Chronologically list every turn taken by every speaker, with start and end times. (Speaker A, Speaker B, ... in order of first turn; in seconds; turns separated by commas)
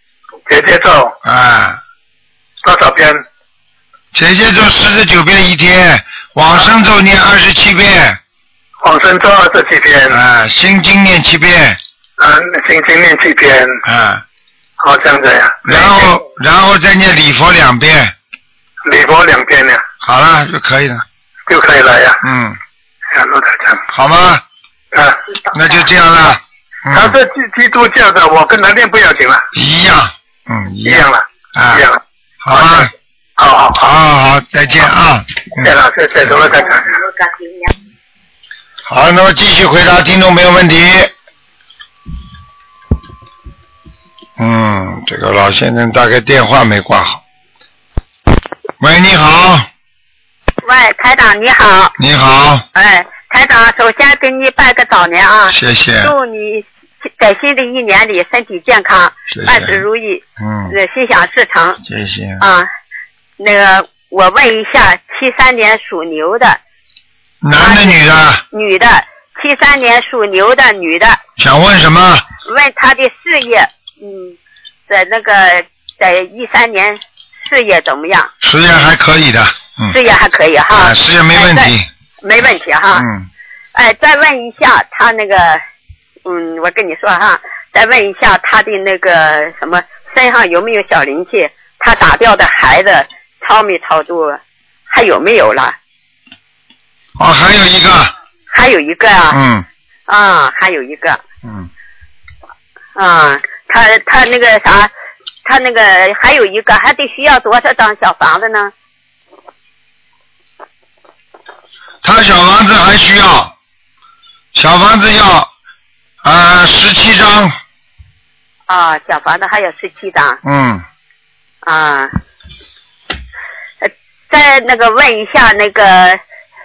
Speaker A: 0.5-1.1, Speaker B: 1.2-1.8, Speaker A: 2.6-3.2, Speaker B: 4.1-8.2, Speaker A: 8.8-10.2, Speaker B: 10.1-11.8, Speaker A: 12.2-13.8, Speaker B: 13.8-14.2, Speaker A: 14.8-16.1, Speaker B: 15.6-18.1, Speaker A: 18.9-19.8, Speaker B: 20.0-21.0, Speaker A: 21.5-22.2, Speaker B: 22.2-22.6, Speaker A: 23.1-23.8, Speaker B: 23.9-24.4, Speaker A: 24.9-25.2, Speaker B: 25.5-27.1, Speaker A: 26.9-29.4, Speaker B: 29.5-31.8, Speaker A: 30.8-33.9, Speaker B: 32.4-32.9, Speaker B: 33.8-35.7, Speaker A: 35.6-37.0, Speaker B: 38.9-41.1, Speaker B: 44.4-47.2, Speaker B: 48.8-49.7, Speaker C: 50.6-51.9, Speaker B: 52.0-52.6, Speaker C: 52.7-61.8, Speaker B: 55.5-56.1, Speaker B: 59.3-59.8, Speaker B: 60.4-60.7, Speaker B: 61.8-62.4, Speaker C: 62.4-62.7, Speaker C: 63.4-66.6, Speaker B: 67.4-68.4, Speaker C: 67.5-71.2, Speaker B: 71.4-72.3, Speaker C: 72.4-74.3, Speaker C: 74.9-78.3, Speaker B: 78.4-79.9, Speaker C: 79.8-83.1, Speaker B: 80.7-81.9, Speaker B: 82.9-83.3, Speaker C: 83.7-85.6, Speaker C: 86.2-95.8, Speaker B: 97.2-98.1, Speaker C: 98.5-99.4, Speaker B: 99.3-99.7, Speaker C: 100.1-101.2, Speaker B: 101.4-101.7, Speaker C: 103.0-104.9, Speaker C: 105.4-108.7, Speaker B: 112.0-113.5, Speaker B: 114.5-115.5, Speaker B: 116.2-117.5, Speaker C: 118.7-120.4, Speaker B: 120.4-120.8, Speaker C: 121.6-122.1, Speaker C: 123.8-126.2